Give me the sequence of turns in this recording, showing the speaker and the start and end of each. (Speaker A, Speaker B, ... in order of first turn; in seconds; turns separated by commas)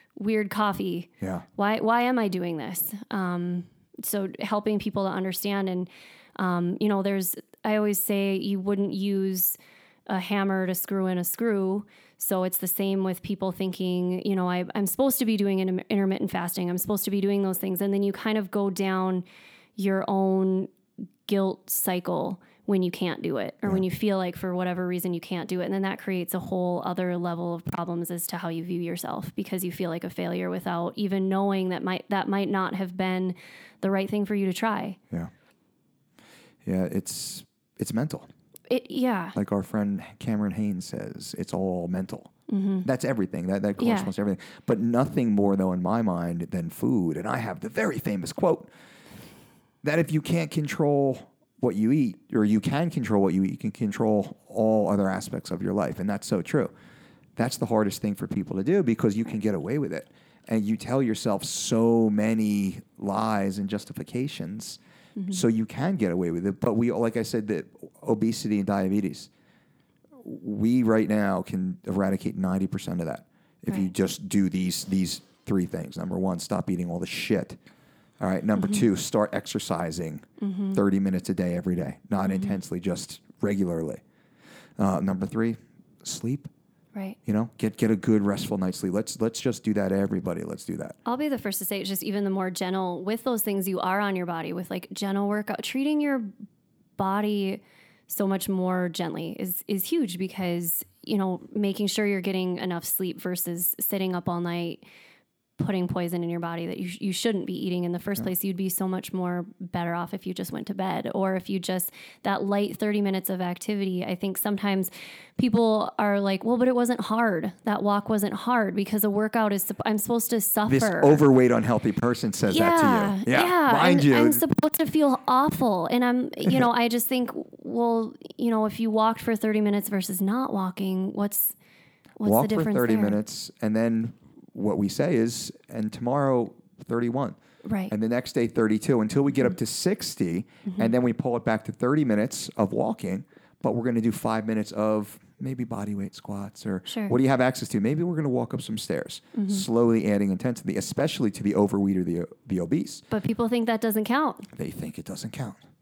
Speaker A: 0.1-19.2, Speaker B: 1.2-1.5, Speaker A: 19.8-20.7, Speaker A: 21.3-35.0, Speaker B: 36.6-38.3, Speaker A: 38.7-39.4, Speaker B: 39.4-42.3, Speaker A: 42.5-42.9, Speaker B: 42.8-48.7, Speaker A: 43.8-44.1, Speaker B: 49.8-56.7, Speaker B: 57.4-69.3, Speaker A: 65.2-65.4, Speaker B: 70.2-77.6, Speaker B: 78.2-84.0, Speaker A: 80.4-80.8, Speaker A: 82.2-82.5, Speaker B: 84.8-86.5, Speaker B: 87.3-91.0, Speaker A: 91.0-96.3, Speaker A: 97.0-104.8, Speaker A: 105.6-121.2, Speaker B: 120.7-124.4, Speaker A: 122.5-131.6, Speaker A: 132.2-133.2, Speaker B: 132.2-137.4, Speaker A: 137.6-137.9, Speaker B: 137.9-153.1, Speaker A: 140.7-140.9, Speaker A: 146.9-147.1, Speaker A: 149.3-149.6, Speaker A: 153.1-154.5, Speaker B: 154.5-155.6